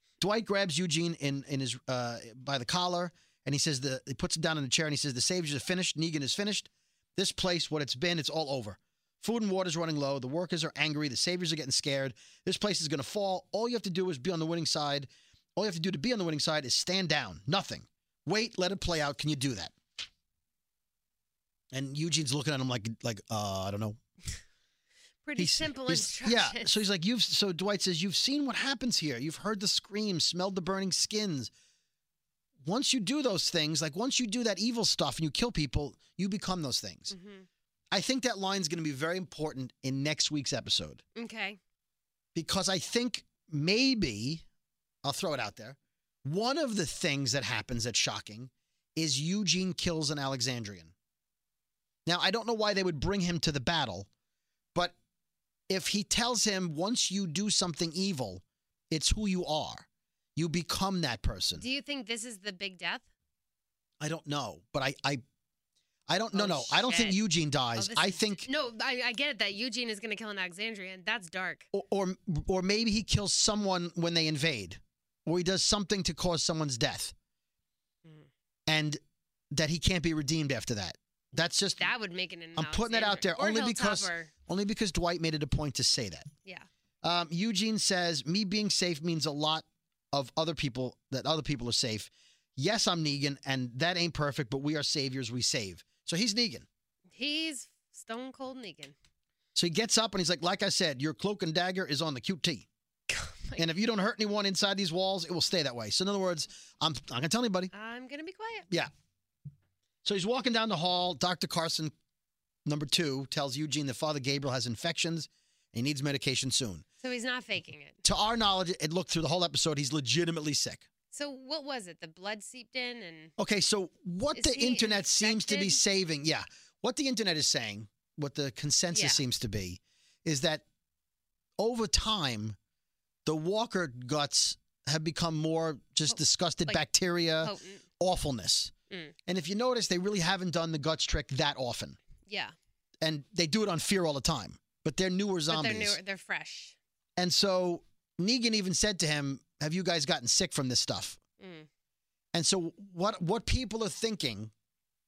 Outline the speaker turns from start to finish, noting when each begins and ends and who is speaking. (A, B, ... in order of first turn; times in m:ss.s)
0:00.2-0:19.7 A
0:21.7-0:24.0 A
0:25.2-0:26.8 B
0:25.4-0:31.5 A
0:32.6-0:37.1 A
0:37.1-0:37.5 B
0:37.9-0:41.0 A
0:41.1-0:41.6 B
0:42.3-0:44.4 A
0:45.0-0:50.9 A
0:52.0-0:54.1 A
0:55.7-1:01.6 A
1:01.6-1:03.0 B
1:04.0-1:05.2 A
1:06.1-1:08.5 A
1:06.3-1:07.2 B
1:07.7-1:11.7 B
1:11.7-1:17.1 A
1:18.7-1:19.0 A
1:19.5-1:21.9 A
1:21.8-1:24.3 B
1:22.5-1:26.3 A
1:27.0-1:36.7 A
1:37.1-1:38.9 B
1:39.5-1:42.7 A
1:43.1-1:43.6 B
1:43.6-1:47.7 A
1:47.7-1:48.7 B
1:50.0-1:51.9 A
1:52.6-1:56.8 A
1:57.0-1:58.0 B
1:58.0-2:00.9 A
2:01.1-2:03.3 B
2:03.4-2:10.6 A
2:04.3-2:05.8 B
2:08.9-2:09.2 B
2:11.6-2:12.6 A
2:13.2-2:18.7 A
2:16.1-2:16.8 B
2:17.4-2:17.8 B
2:19.3-2:22.0 A
2:22.3-2:22.5 B
2:23.0-2:26.0 A
2:25.5-2:26.8 B
2:27.2-2:31.2 A
2:31.4-2:31.7 B
2:32.3-2:34.5 A